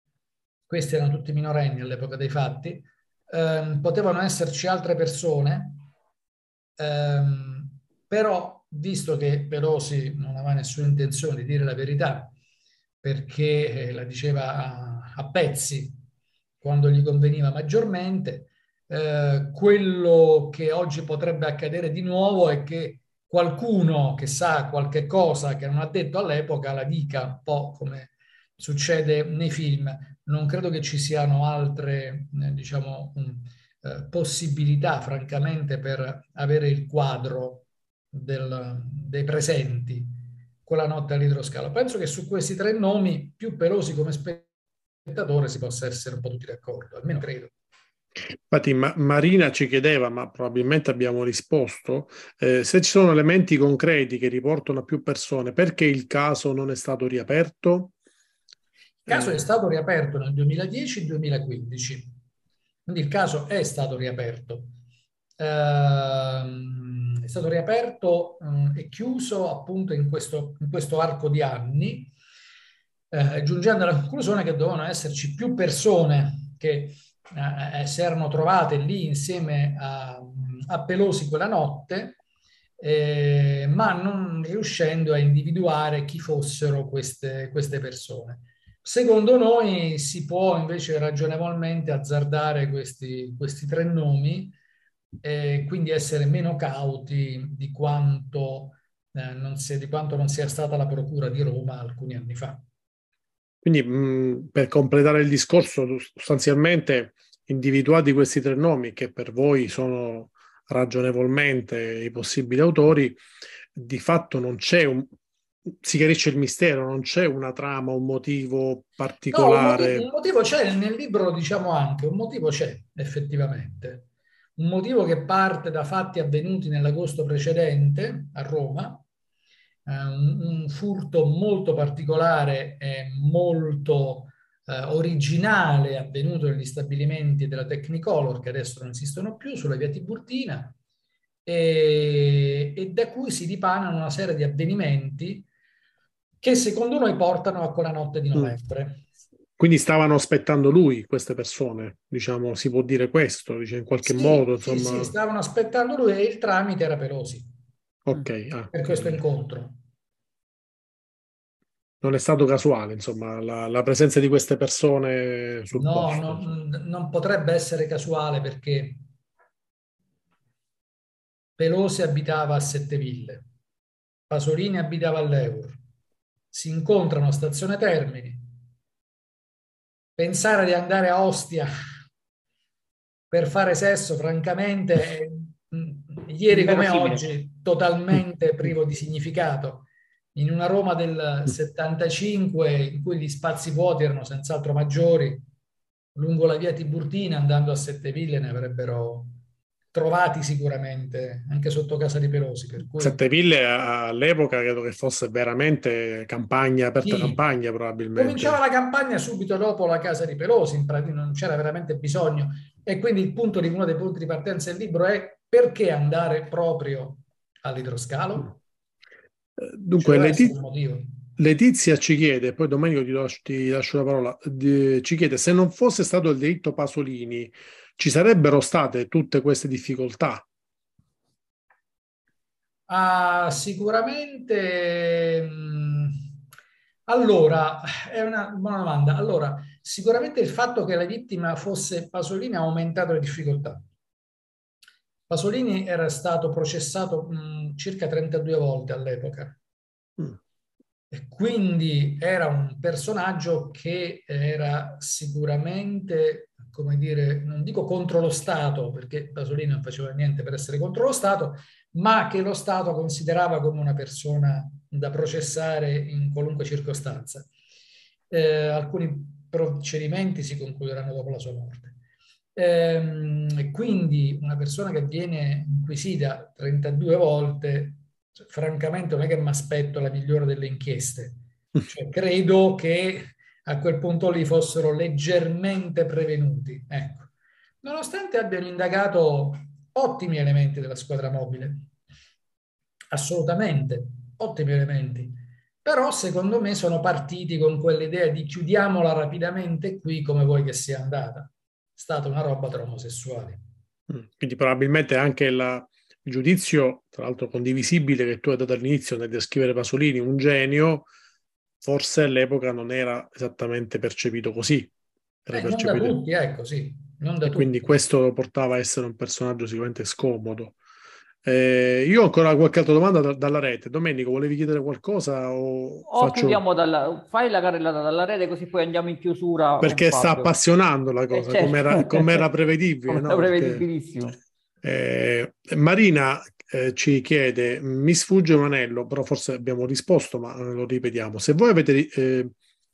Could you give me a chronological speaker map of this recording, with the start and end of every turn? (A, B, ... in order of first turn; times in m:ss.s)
0:00.7-0:05.8 A
0:06.8-0:12.3 A
0:13.0-0:16.0 A
0:16.6-0:44.5 A
0:45.1-0:47.5 A
0:48.5-0:57.9 B
0:59.1-1:02.1 A
0:59.1-0:59.4 B
1:02.9-1:04.7 A
1:05.4-1:12.1 A
1:13.1-1:22.2 A
1:22.8-1:34.6 A
1:35.2-1:42.6 A
1:43.6-1:53.2 B
1:53.8-1:55.1 B
1:55.8-2:00.1 B
1:59.3-2:09.0 A
2:09.9-2:20.8 A
2:21.4-2:25.5 A
2:26.4-2:29.0 A
2:29.6-2:35.2 B
2:34.0-2:37.5 A
2:38.1-2:39.2 B
2:38.7-2:39.8 A
2:42.0-2:46.5 B
2:45.7-2:49.0 A
2:51.6-2:53.5 A
2:54.3-2:55.8 A
2:56.5-2:58.5 A
3:00.2-3:01.7 A
3:03.3-3:15.4 A
3:06.5-3:07.2 C
3:16.2-3:19.4 A
3:19.9-3:23.2 A
3:23.0-3:28.6 B
3:27.0-3:27.4 A
3:28.2-3:38.6 A
3:39.6-3:40.6 B
3:39.9-3:41.1 A
3:41.4-3:50.4 B
3:52.9-3:56.2 A
3:57.1-4:03.8 A
4:05.3-4:09.6 A
4:11.1-4:27.5 A
4:28.3-4:32.0 A
4:32.6-4:47.3 A
4:47.8-4:51.9 A
4:53.1-5:03.6 A
5:04.1-5:11.1 B
5:11.8-5:14.9 B
5:15.5-5:16.2 B
5:15.5-5:18.0 A
5:17.4-5:20.8 B
5:21.4-5:26.6 B
5:26.1-5:30.5 C
5:29.8-5:33.9 B
5:31.3-5:32.4 C
5:33.1-5:34.4 C
5:34.8-5:42.5 B